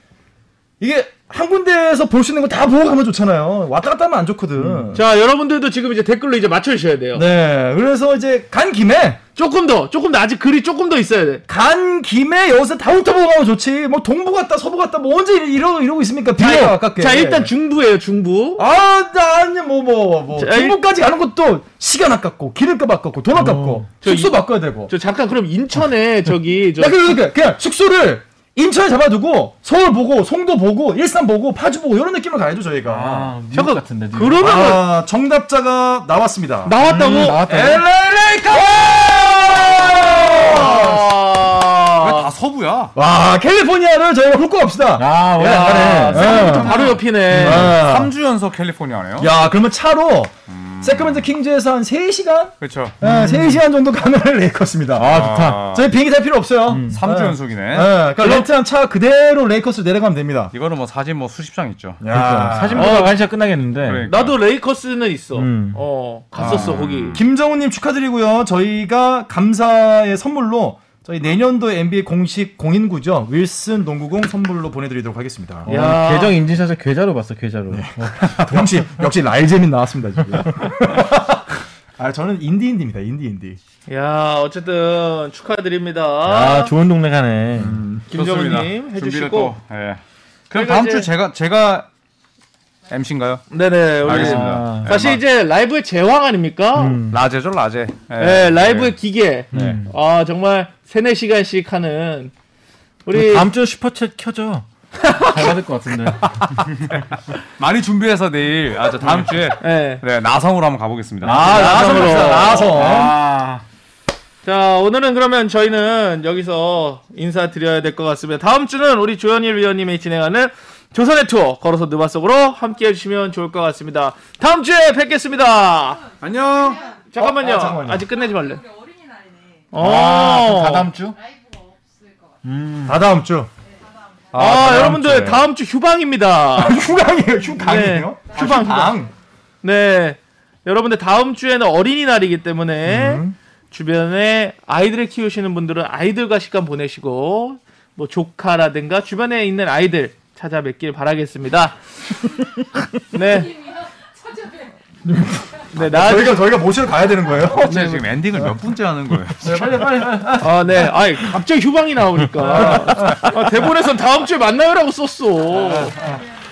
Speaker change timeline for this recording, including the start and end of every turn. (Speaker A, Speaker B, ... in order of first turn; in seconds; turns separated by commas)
Speaker A: 0.8-5.0, Speaker B: 4.9-7.2, Speaker A: 7.1-9.2, Speaker B: 9.4-11.4, Speaker A: 11.5-17.5, Speaker B: 16.4-18.6, Speaker A: 18.6-24.9, Speaker B: 20.4-20.8, Speaker C: 23.3-23.9, Speaker B: 24.0-27.0, Speaker A: 26.8-33.3, Speaker C: 32.9-34.7, Speaker B: 33.5-34.9, Speaker A: 34.4-36.8, Speaker B: 36.6-37.4, Speaker C: 36.8-37.9, Speaker D: 37.2-40.9, Speaker A: 38.5-41.1, Speaker B: 40.1-42.3, Speaker D: 42.0-43.0, Speaker A: 43.0-48.1, Speaker C: 45.0-46.7, Speaker B: 45.4-47.7, Speaker D: 46.1-49.3, Speaker C: 47.3-47.7, Speaker A: 49.2-60.5, Speaker D: 50.5-51.3, Speaker D: 52.6-53.0, Speaker C: 53.0-53.6, Speaker C: 55.0-55.7, Speaker D: 55.0-55.9, Speaker C: 56.7-57.0, Speaker D: 56.9-58.0, Speaker B: 58.2-58.5, Speaker D: 60.5-62.0, Speaker A: 62.0-63.0, Speaker C: 62.1-64.1, Speaker B: 62.8-63.1, Speaker D: 63.8-64.4, Speaker B: 64.1-67.2, Speaker C: 65.3-65.8, Speaker D: 66.3-67.2, Speaker A: 66.4-75.7, Speaker C: 75.7-79.1, Speaker B: 75.7-76.4, Speaker A: 77.7-83.6, Speaker B: 83.9-86.7, Speaker C: 86.2-87.8, Speaker A: 87.6-88.1, Speaker D: 88.1-91.9, Speaker B: 88.1-89.5, Speaker B: 90.5-91.1, Speaker D: 92.9-95.2, Speaker B: 93.5-97.0, Speaker C: 94.0-95.0, Speaker C: 96.8-97.2, Speaker D: 97.1-99.0, Speaker B: 98.2-102.3, Speaker D: 99.5-99.8, Speaker C: 99.5-99.9, Speaker B: 103.0-103.5, Speaker C: 103.1-107.0, Speaker B: 105.0-105.5, Speaker D: 106.9-112.4, Speaker B: 109.6-110.0, Speaker C: 111.2-113.6, Speaker B: 111.3-112.8, Speaker A: 111.4-113.2, Speaker B: 114.4-126.0, Speaker E: 125.7-127.1, Speaker D: 126.2-126.8, Speaker B: 127.1-128.6, Speaker A: 127.2-128.1, Speaker E: 128.0-129.9, Speaker B: 129.7-130.9, Speaker C: 129.7-131.2, Speaker E: 131.0-132.6, Speaker C: 132.4-133.1, Speaker A: 132.8-133.5, Speaker E: 133.7-134.6, Speaker A: 134.3-135.5, Speaker B: 134.3-136.8, Speaker D: 134.4-135.2, Speaker A: 136.5-139.1, Speaker B: 137.6-139.1, Speaker B: 139.6-152.3, Speaker A: 142.9-143.4, Speaker B: 153.1-153.6, Speaker E: 153.1-154.8, Speaker A: 155.1-158.0, Speaker B: 155.8-156.5, Speaker D: 157.5-159.7, Speaker B: 157.6-158.1, Speaker C: 159.4-160.8, Speaker A: 159.5-160.4, Speaker B: 160.4-166.2, Speaker A: 162.4-163.3, Speaker C: 162.5-163.1, Speaker A: 165.5-166.2